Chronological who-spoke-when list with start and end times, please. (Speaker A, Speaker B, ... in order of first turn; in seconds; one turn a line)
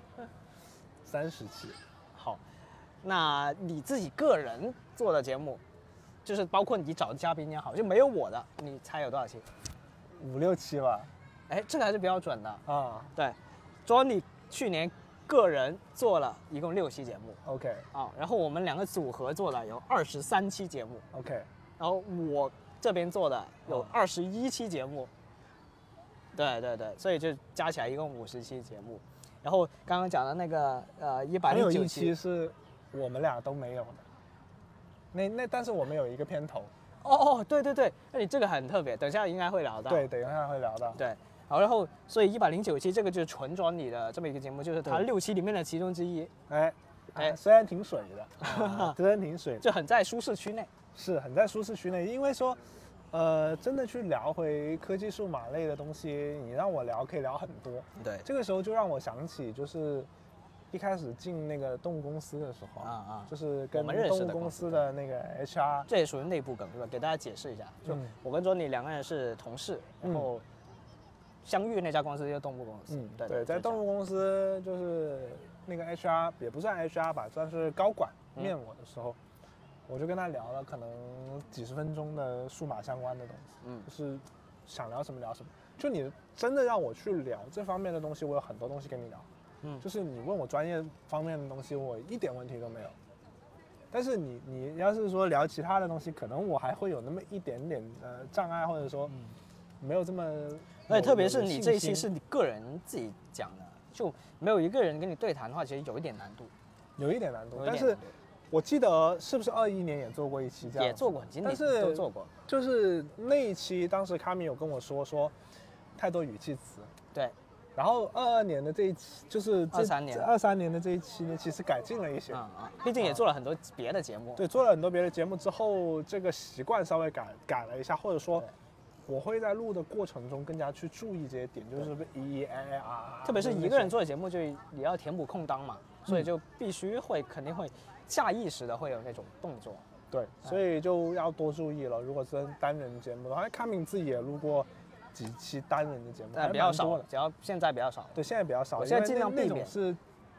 Speaker A: 1.0-1.8
Speaker B: 2.1-2.4
Speaker B: 3.0-5.6
Speaker B: 6.2-9.4
Speaker A: 10.2-11.1
Speaker B: 11.5-12.6
Speaker A: 12.7-13.1
Speaker B: 13.1-17.4
Speaker A: 17.4-17.8
Speaker B: 17.9-21.0
Speaker A: 21.1-21.5
Speaker B: 21.8-25.1
Speaker A: 23.7-23.9
Speaker B: 26.3-32.1
Speaker A: 31.4-34.0
Speaker A: 35.1-36.7
Speaker B: 37.0-40.1
Speaker A: 39.9-41.0
Speaker B: 40.9-46.3
Speaker A: 46.5-49.6
Speaker B: 48.4-49.0
Speaker B: 49.6-50.7
Speaker A: 50.9-60.1
Speaker B: 58.0-58.2
Speaker A: 60.7-65.9
Speaker B: 62.8-64.9
Speaker B: 65.9-70.4
Speaker A: 67.8-68.1
Speaker A: 70.0-70.3
Speaker B: 71.4-73.8
Speaker A: 72.9-79.2
Speaker A: 79.9-89.2
Speaker B: 83.6-83.9
Speaker A: 89.8-92.9
Speaker A: 93.9-99.1
Speaker A: 99.8-102.1
Speaker B: 100.9-106.5
Speaker A: 107.0-115.3
Speaker B: 107.5-108.1
Speaker B: 110.7-112.3
Speaker A: 116.0-116.9
Speaker A: 117.8-122.4
Speaker B: 119.7-120.3
Speaker B: 122.3-124.5
Speaker A: 123.0-123.2
Speaker A: 124.4-128.5
Speaker A: 129.1-134.0
Speaker B: 133.2-139.8
Speaker A: 140.1-147.1
Speaker B: 146.3-148.2
Speaker A: 148.1-150.0
Speaker B: 148.8-149.7